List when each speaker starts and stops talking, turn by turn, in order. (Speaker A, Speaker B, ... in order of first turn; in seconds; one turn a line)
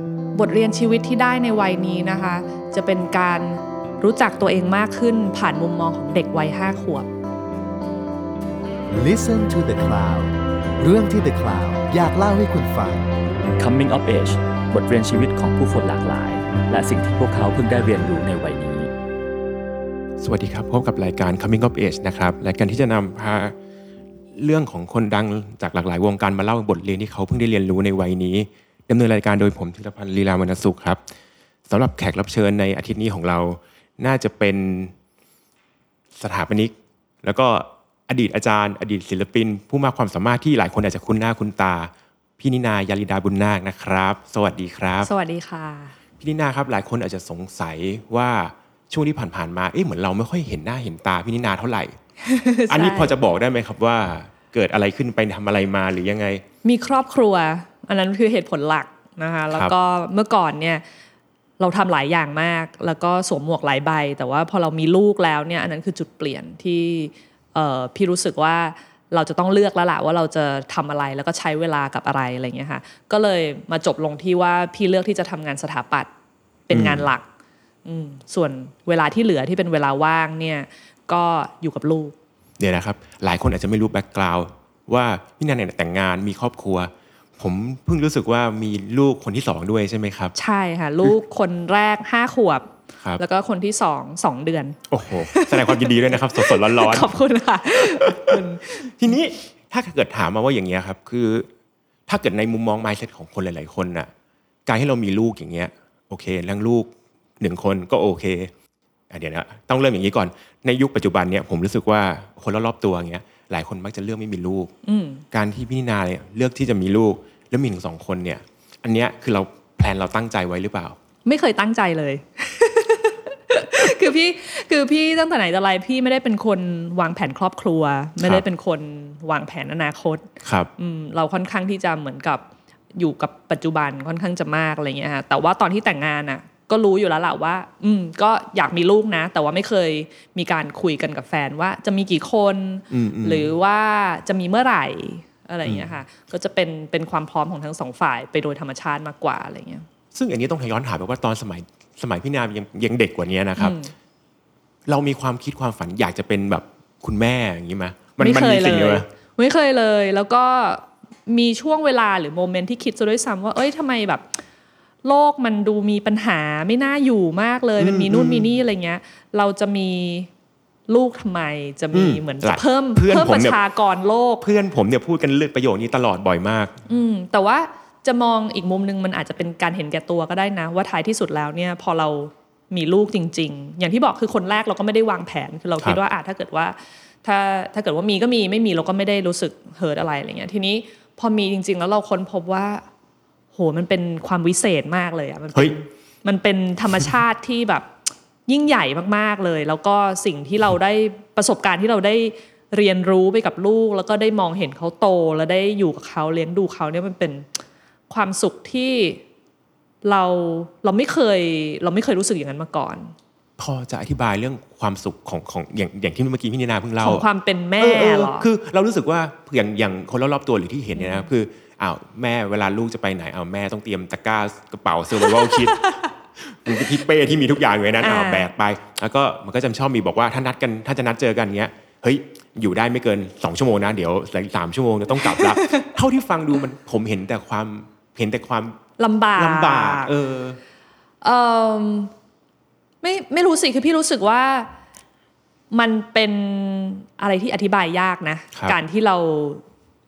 Speaker A: 0.3-7.1
Speaker B: 8.9-13.1
Speaker C: 13.5-18.9
Speaker D: 20.2-23.5
Speaker D: 24.4-31.0
Speaker D: 31.7-34.9
Speaker D: 36.1-45.1
Speaker A: 45.0-45.9
Speaker D: 46.2-51.9
Speaker A: 52.2-53.1
Speaker D: 52.7-56.4
Speaker A: 56.6-60.8
Speaker A: 61.6-76.1
Speaker A: 76.7-77.2
Speaker D: 76.7-77.1
Speaker A: 77.8-82.1
Speaker D: 82.6-90.3
Speaker A: 90.3-94.8
Speaker D: 94.9-97.1
Speaker A: 95.3-99.1
Speaker D: 97.8-101.5
Speaker D: 102.1-104.1
Speaker D: 104.7-106.9
Speaker D: 107.4-108.5
Speaker D: 109.1-114.7
Speaker A: 114.8-115.2
Speaker D: 115.3-121.0
Speaker A: 121.2-130.2
Speaker D: 130.4-130.7
Speaker A: 130.8-132.4
Speaker A: 132.9-149.8
Speaker D: 142.9-143.5
Speaker D: 150.1-153.8
Speaker A: 153.6-153.9
Speaker D: 154.9-159.1
Speaker A: 158.2-164.4
Speaker A: 165.0-170.3
Speaker D: 167.8-168.5
Speaker A: 170.9-174.4
Speaker D: 171.9-173.6
Speaker D: 174.4-176.8
Speaker A: 176.8-192.8
Speaker A: 193.5-197.9
Speaker A: 198.5-207.5
Speaker A: 208.1-209.2
Speaker A: 210.0-213.1
Speaker D: 213.6-217.2
Speaker A: 217.0-218.4
Speaker D: 217.8-238.8
Speaker A: 220.9-221.3
Speaker A: 225.4-225.9
Speaker A: 228.0-228.5
Speaker A: 235.4-235.8
Speaker A: 239.0-240.1
Speaker D: 239.4-240.6
Speaker A: 241.2-242.1
Speaker A: 243.0-244.7
Speaker A: 245.7-249.6